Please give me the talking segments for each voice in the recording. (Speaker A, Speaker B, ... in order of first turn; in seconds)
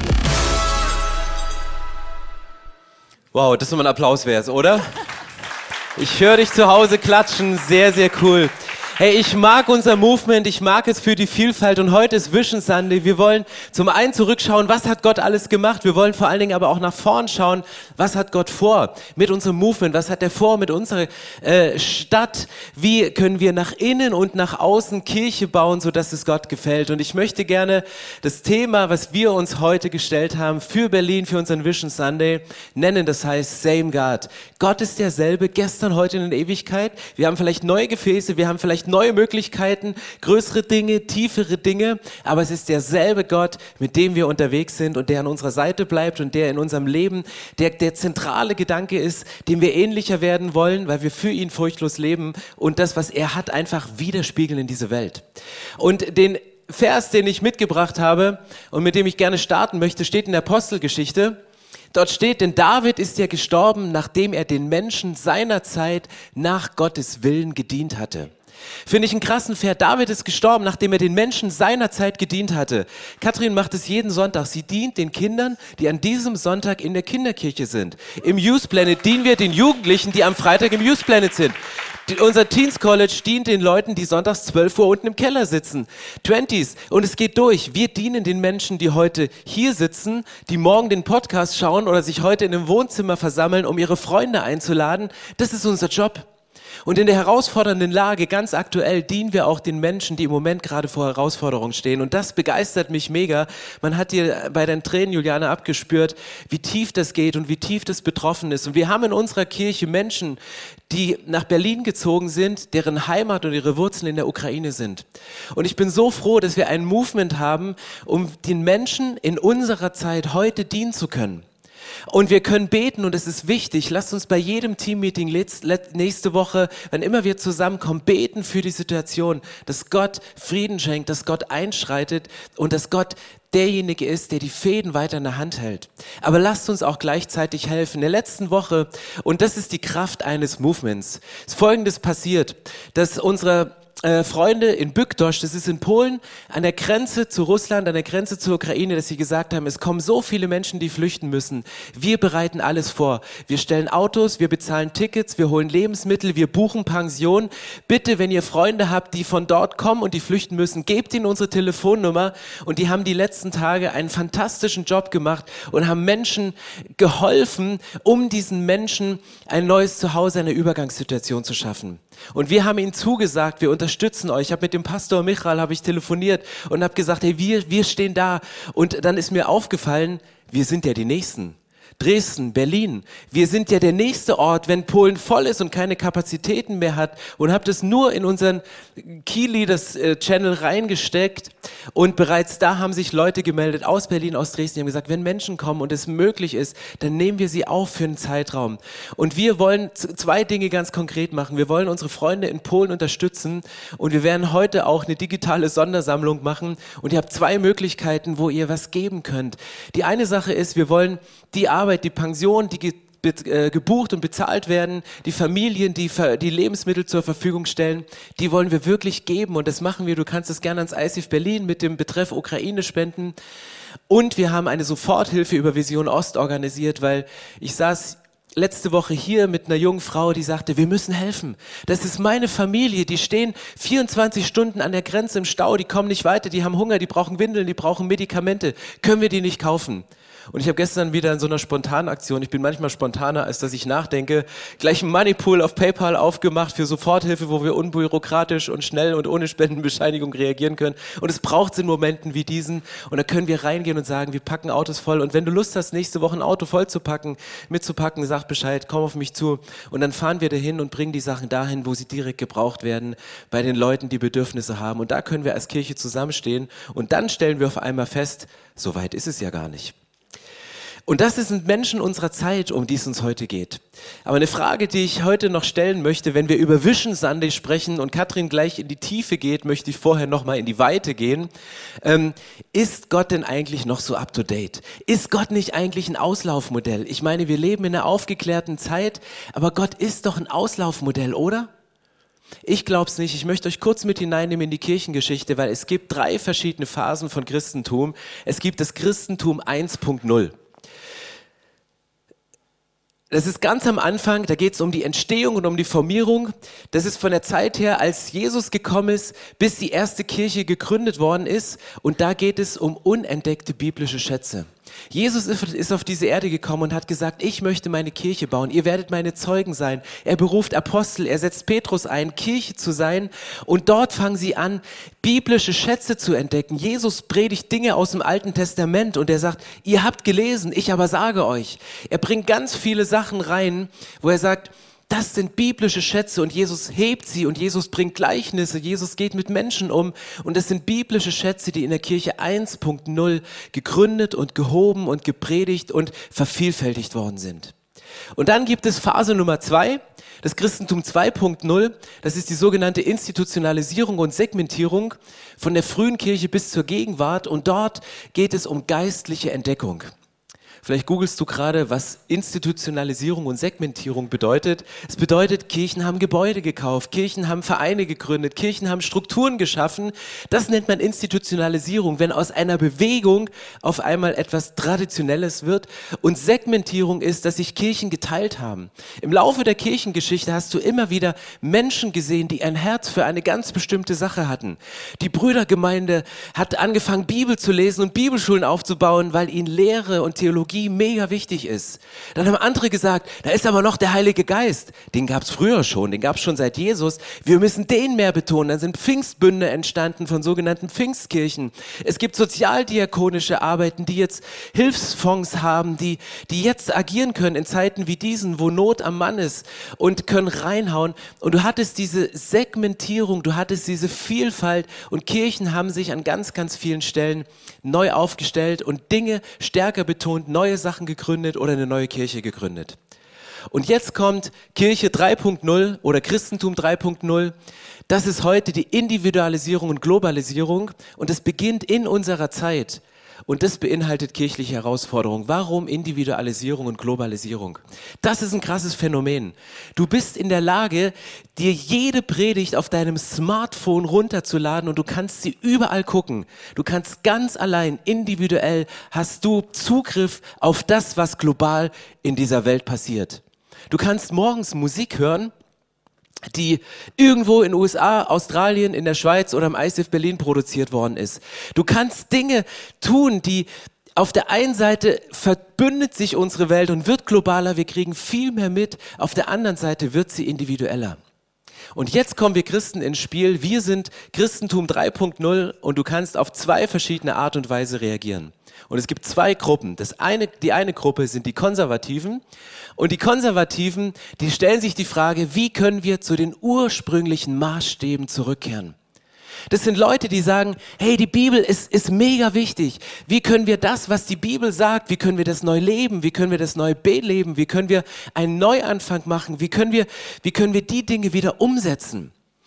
Speaker A: 3.3-5.0, 6.0-55.2, 55.8-61.4, 61.9-68.3, 68.8-81.5, 82.0-96.3, 96.8-121.5, 122.1-223.3, 224.1-269.9, 271.1-281.5, 282.0-291.7, 292.6-300.5, 303.3-347.7, 348.3-360.1, 360.8-423.0, 423.7-427.5, 428.1-455.5, 456.5-471.2, 471.9-482.4, 483.0-488.9, 489.7-502.3